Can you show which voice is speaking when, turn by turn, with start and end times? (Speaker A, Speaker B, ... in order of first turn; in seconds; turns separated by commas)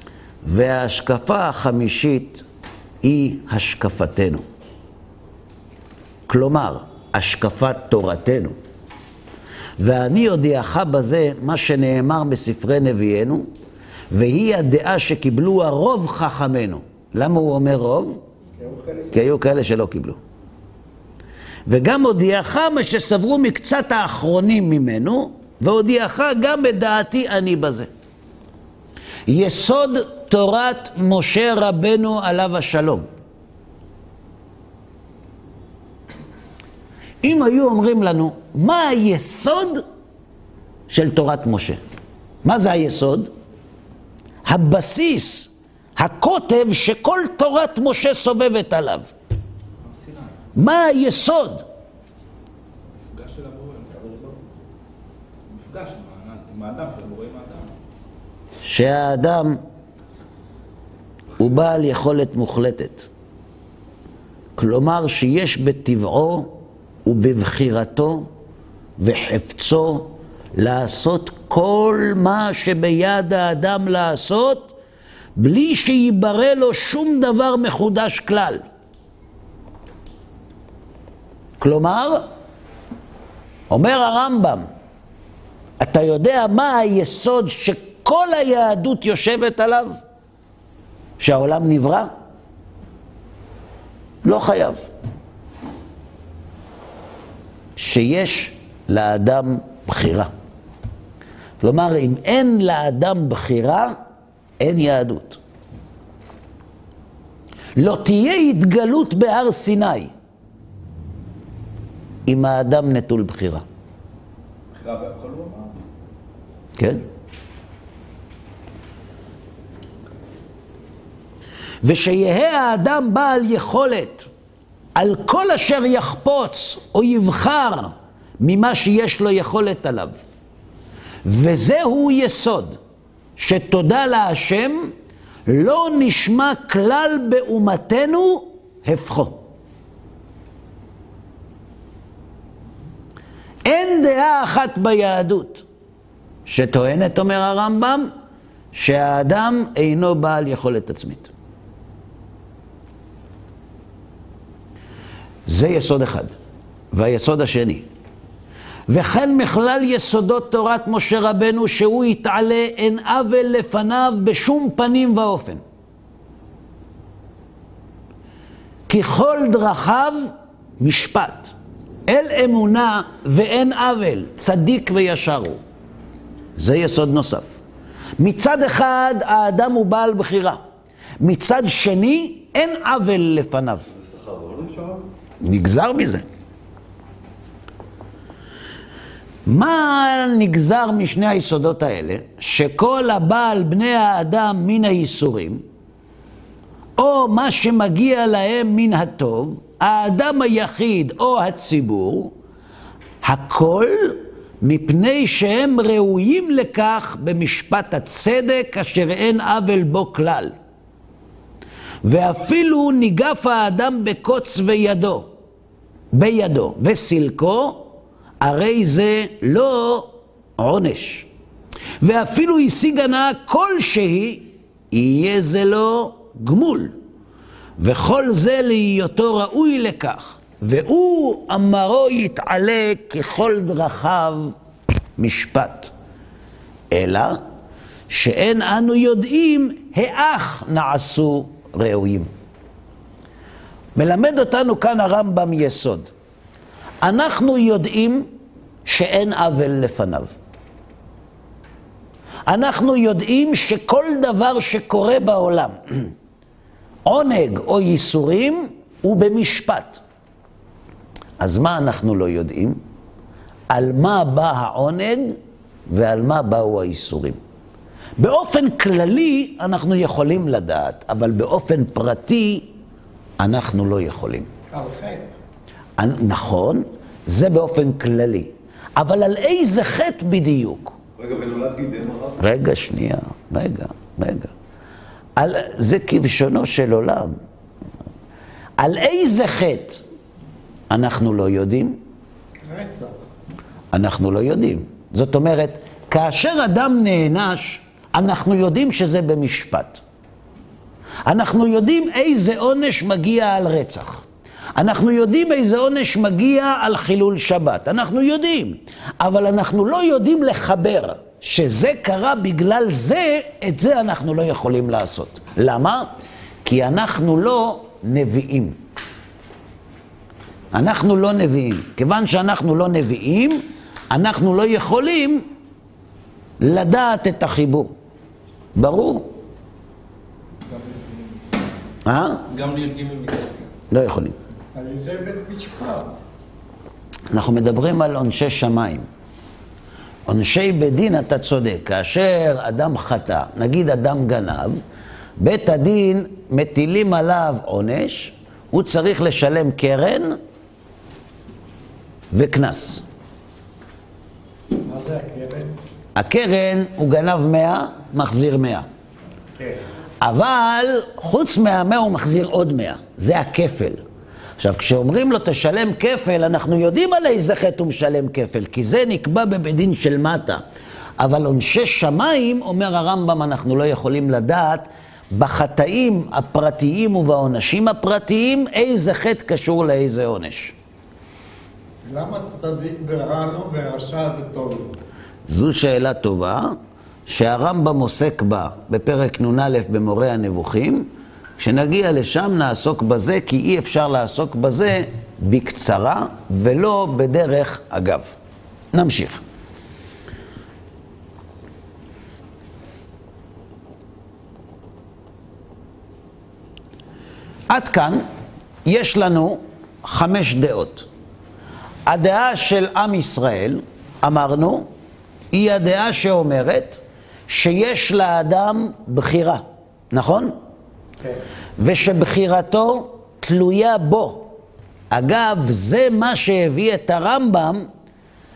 Speaker A: 0.4-2.4, Speaker A: 3.0-4.4, Speaker A: 6.3-8.6, Speaker A: 9.8-13.5, Speaker A: 14.1-18.2, Speaker B: 18.6-19.1, Speaker A: 19.1-20.2, Speaker A: 21.7-27.9, Speaker A: 29.3-33.1, Speaker A: 37.2-39.8, Speaker A: 40.9-41.8, Speaker A: 42.4-43.3, Speaker A: 44.5-49.1, Speaker C: 49.8-50.4, Speaker A: 50.6-51.6, Speaker C: 52.9-54.4, Speaker C: 55.5-57.7, Speaker A: 58.6-59.6, Speaker A: 61.4-63.1, Speaker A: 64.6-66.5, Speaker A: 67.0-68.3, Speaker A: 69.0-74.7, Speaker A: 75.4-78.6, Speaker A: 81.6-82.2, Speaker A: 83.7-84.7, Speaker A: 85.8-90.0, Speaker A: 91.2-92.1, Speaker A: 94.2-94.8, Speaker A: 97.8-100.3, Speaker A: 101.6-103.9, Speaker A: 104.6-105.4, Speaker A: 107.8-110.1, Speaker A: 112.3-113.6, Speaker C: 114.8-115.7, Speaker A: 116.8-117.0, Speaker A: 121.8-124.3, Speaker A: 125.0-130.2, Speaker A: 131.2-132.8, Speaker A: 133.4-134.9, Speaker A: 135.5-139.4, Speaker A: 143.7-145.6, Speaker A: 146.5-148.1, Speaker A: 148.7-151.3, Speaker A: 155.5-156.3, Speaker A: 156.9-157.8, Speaker A: 158.9-165.6, Speaker A: 168.9-171.5, Speaker A: 172.1-175.6, Speaker A: 176.6-177.6, Speaker A: 178.2-180.6, Speaker A: 181.2-183.9, Speaker D: 183.9-185.1, Speaker A: 185.4-186.2, Speaker A: 189.4-195.6, Speaker A: 197.0-202.3, Speaker A: 203.2-210.5, Speaker A: 212.0-215.3, Speaker A: 216.1-217.9, Speaker A: 218.4-221.3, Speaker A: 222.0-226.9, Speaker A: 227.8-234.5, Speaker A: 235.2-235.9, Speaker A: 236.9-237.4, Speaker A: 238.1-242.3, Speaker A: 243.9-246.1, Speaker A: 247.0-248.3, Speaker A: 248.9-250.3, Speaker A: 252.5-256.1, Speaker A: 257.1-260.0, Speaker A: 261.4-262.8, Speaker A: 263.7-265.4, Speaker A: 265.9-267.4, Speaker A: 268.2-272.6, Speaker A: 273.4-274.5, Speaker B: 274.7-275.3, Speaker A: 276.0-280.9, Speaker D: 281.2-282.4, Speaker A: 282.4-284.5, Speaker A: 285.4-287.4, Speaker A: 288.8-290.0, Speaker A: 290.9-292.0, Speaker B: 292.6-293.2, Speaker A: 293.9-300.0, Speaker A: 301.3-304.2, Speaker A: 304.8-316.1, Speaker A: 316.6-318.8, Speaker A: 320.7-325.4, Speaker A: 326.6-327.9, Speaker A: 328.7-329.3, Speaker C: 330.7-331.4, Speaker A: 332.1-332.4, Speaker C: 332.5-333.7, Speaker A: 333.9-334.4, Speaker B: 334.7-336.1, Speaker A: 337.3-339.1, Speaker A: 340.3-344.8, Speaker A: 345.4-350.4, Speaker A: 352.3-353.0, Speaker B: 354.8-355.7, Speaker A: 356.1-358.9, Speaker B: 359.6-359.8, Speaker A: 360.2-364.0, Speaker A: 364.6-370.6, Speaker A: 371.2-380.7, Speaker B: 382.1-385.0, Speaker A: 385.5-386.7, Speaker A: 387.3-391.1, Speaker A: 391.6-398.4, Speaker A: 398.9-399.4, Speaker A: 407.7-408.2, Speaker A: 408.9-411.1, Speaker A: 412.1-414.9, Speaker A: 415.5-420.5, Speaker A: 421.8-424.5, Speaker A: 425.1-427.9